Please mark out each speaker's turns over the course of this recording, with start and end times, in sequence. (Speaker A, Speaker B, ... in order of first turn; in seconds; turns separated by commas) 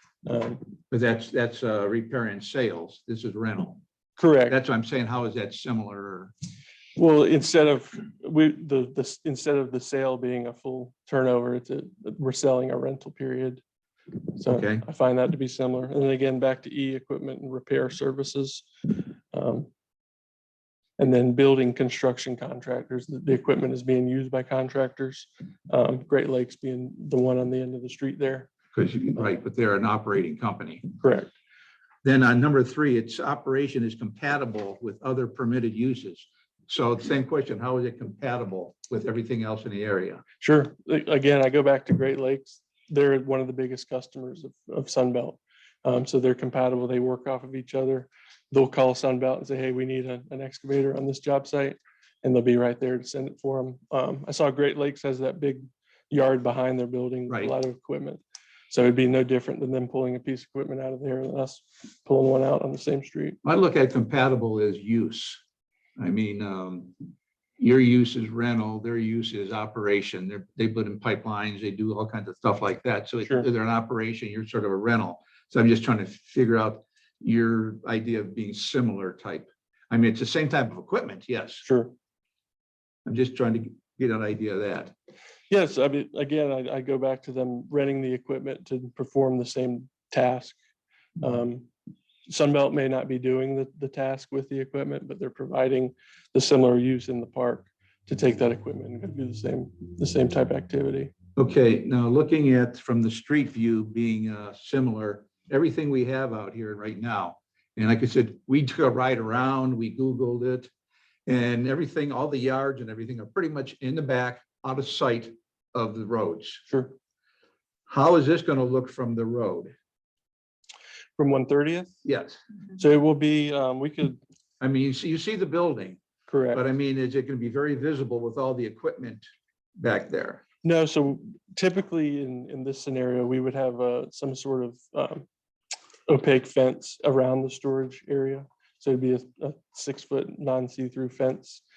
Speaker A: 0.2-0.7, Speaker B: 0.9-3.8, Speaker A: 4.2-4.6, Speaker B: 4.5-6.3, Speaker A: 7.0-13.6, Speaker A: 14.3-19.7, Speaker B: 14.5-14.9, Speaker A: 21.0-28.5, Speaker B: 28.7-30.9, Speaker A: 31.0-31.3, Speaker B: 32.0-40.2, Speaker A: 40.4-63.4, Speaker B: 63.4-65.4, Speaker B: 66.0-67.0, Speaker B: 67.6-81.6, Speaker A: 81.7-81.9, Speaker B: 83.1-84.9, Speaker A: 85.5-90.6, Speaker A: 91.2-91.7, Speaker A: 92.3-101.1, Speaker B: 101.4-110.7, Speaker B: 111.3-116.6, Speaker A: 116.7-117.0, Speaker B: 117.9-119.7, Speaker A: 121.2-122.0, Speaker B: 122.0-122.4, Speaker A: 122.8-124.2, Speaker B: 124.6-126.0, Speaker A: 126.3-126.6, Speaker B: 126.5-129.2, Speaker B: 129.8-130.4, Speaker A: 130.6-135.3, Speaker A: 136.1-141.6